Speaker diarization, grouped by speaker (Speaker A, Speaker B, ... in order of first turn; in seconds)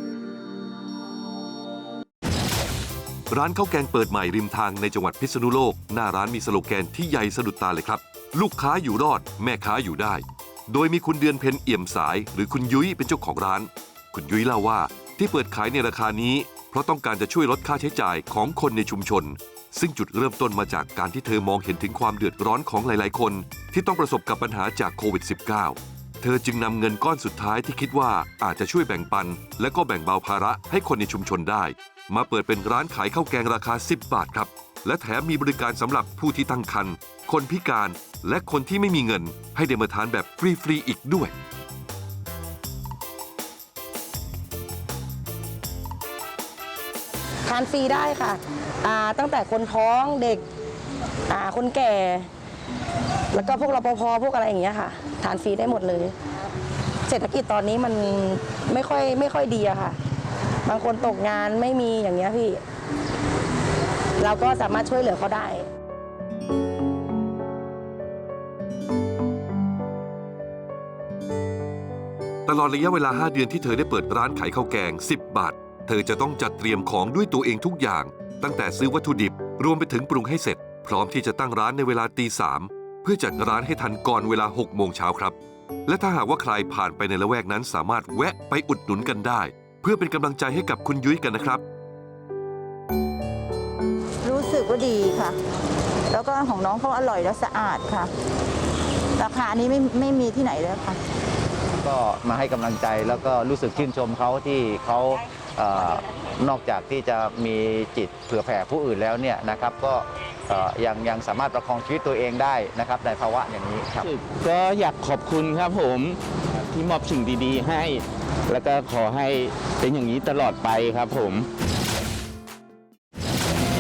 Speaker A: 3.3-41.3, 72.5-85.3, 85.9-91.6
Speaker B: 47.5-50.5, 51.3-52.3, 53.3-56.3, 57.0-60.0, 60.6-62.6, 64.2-65.7
Speaker C: 94.2-95.3, 96.1-98.1, 99.2-101.0
Speaker D: 101.8-114.1
Speaker E: 114.0-121.5